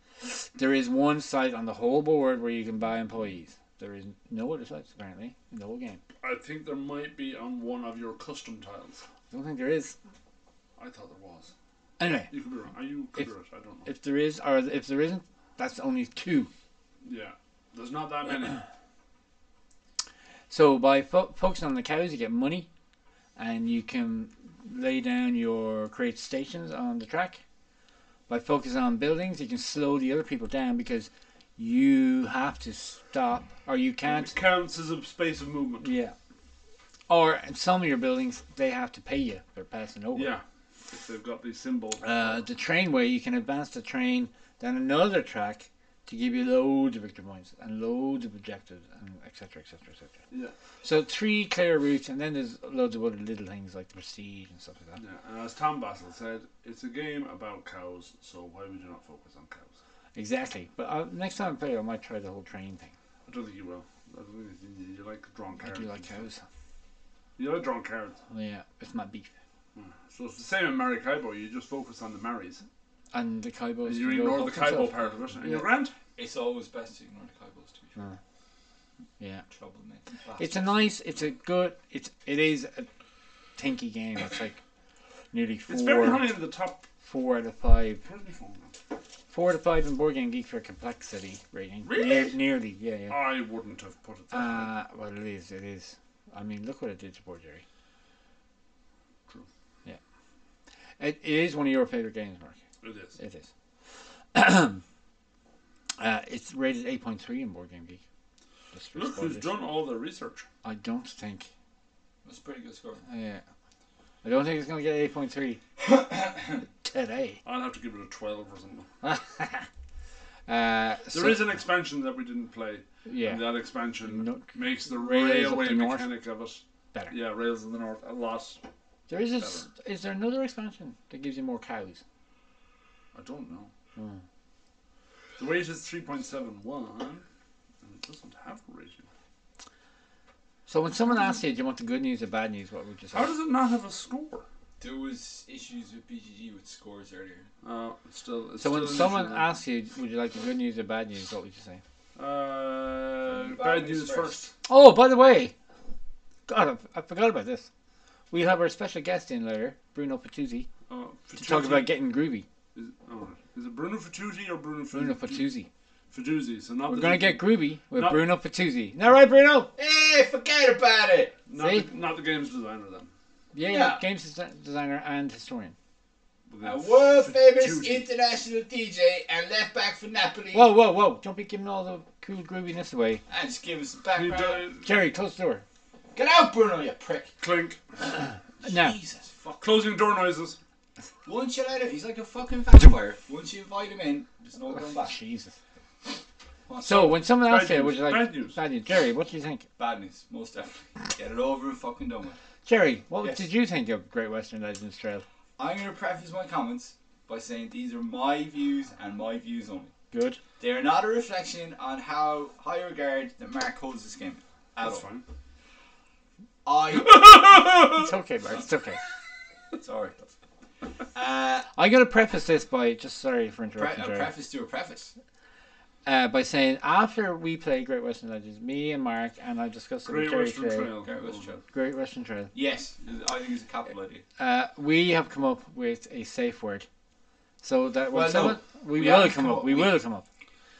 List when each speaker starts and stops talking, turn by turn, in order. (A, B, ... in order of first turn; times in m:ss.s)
0:00.3-0:06.0 A
0:06.2-0:09.0 B
0:09.3-0:10.0 A
0:10.8-0:11.5 B
0:12.0-0:12.3 A
0:12.3-0:13.9 B
0:13.9-0:16.5 A
0:17.0-0:18.6 B
0:20.5-0:22.7 A
0:23.4-0:27.4 A
0:28.3-0:34.4 A
0:34.0-0:35.9 B
0:35.8-0:36.2 A
0:37.1-0:40.4 A
0:40.1-0:42.4 B
0:42.0-0:50.2 A
0:50.8-0:55.0 A
0:55.0-0:59.7 B
1:00.2-1:02.9 A
1:03.3-1:06.2 B
1:05.6-1:06.4 A
1:07.4-1:08.2 B
1:08.3-1:09.3 A
1:09.8-1:12.6 B
1:13.1-1:15.7 A
1:13.8-1:15.9 B
1:16.2-1:18.0 C
1:19.2-1:19.4 A
1:19.5-1:20.7 C
1:20.4-1:22.9 A
1:23.6-1:24.6 A
1:25.3-1:26.3 A
1:25.7-1:26.9 B
1:27.0-1:28.0 A
1:28.0-1:28.7 B
1:29.3-1:33.2 A
1:31.9-1:32.4 B
1:33.1-1:34.7 B
1:34.3-1:37.6 A
1:41.0-1:42.6 A
1:42.8-1:43.2 B
1:43.2-1:43.5 A
1:44.3-1:44.8 A
1:46.0-1:48.0 A
1:48.7-1:49.6 A
1:48.9-1:50.5 B
1:50.6-1:51.5 A
1:52.2-1:53.0 C
1:53.1-1:53.4 A
1:54.2-1:55.6 A
1:55.8-1:56.6 C
1:56.8-1:57.4 A
1:57.4-1:58.9 B
1:59.0-1:59.7 A
2:00.5-2:01.5 A
2:01.1-2:08.6 B
2:03.0-2:06.1 A
2:09.1-2:12.0 A
2:09.4-2:09.7 B
2:13.1-2:13.7 B
2:14.0-2:14.2 A
2:15.4-2:17.2 B
2:17.8-2:19.1 B
2:20.7-2:23.3 A
2:23.1-2:24.4 B
2:24.8-2:27.5 C
2:27.6-2:29.5 B
2:28.6-2:31.8 A
2:32.2-2:34.5 B
2:33.3-2:34.5 C
2:34.7-2:35.5 A
2:36.5-2:37.7 A
2:38.3-2:40.7 A
2:40.9-2:42.0 B
2:41.4-2:42.5 A
2:42.7-2:45.5 B
2:44.9-2:45.7 A
2:46.1-2:48.3 B
2:46.9-2:49.7 A
2:49.8-2:51.4 C
2:51.5-2:53.1 B
2:51.6-2:51.9 A
2:53.5-2:55.7 A
2:53.7-2:54.0 C
2:56.5-2:58.1 B
2:56.6-3:00.7 C
3:00.5-3:03.2 A
3:03.3-3:04.7 C
3:04.1-3:04.9 B
3:04.8-3:05.6 A
3:06.1-3:07.3 C
3:07.4-3:07.8 B
3:08.6-3:09.9 C
3:08.6-3:09.0 A
3:09.6-3:10.6 B
3:11.2-3:15.2 C
3:14.7-3:15.5 A
3:16.7-3:17.2 C
3:16.8-3:19.6 A
3:16.9-3:18.6 B
3:19.8-3:22.4 C
3:22.6-3:25.2 A
3:25.6-3:29.9 C
3:30.1-3:30.4 A
3:30.6-3:35.0 C
3:34.8-3:35.2 B
3:36.6-3:37.8 C
3:37.9-3:39.0 A
3:39.8-3:40.2 C
3:41.1-3:41.7 C
3:41.7-3:44.3 A
3:43.8-3:45.1 C
3:46.1-3:50.9 A
3:50.0-3:51.5 B
3:51.0-3:51.6 C
3:51.7-3:52.5 A
3:52.5-3:54.2 C
3:54.4-3:56.9 A
3:57.6-4:00.2 A
3:58.1-4:00.0 C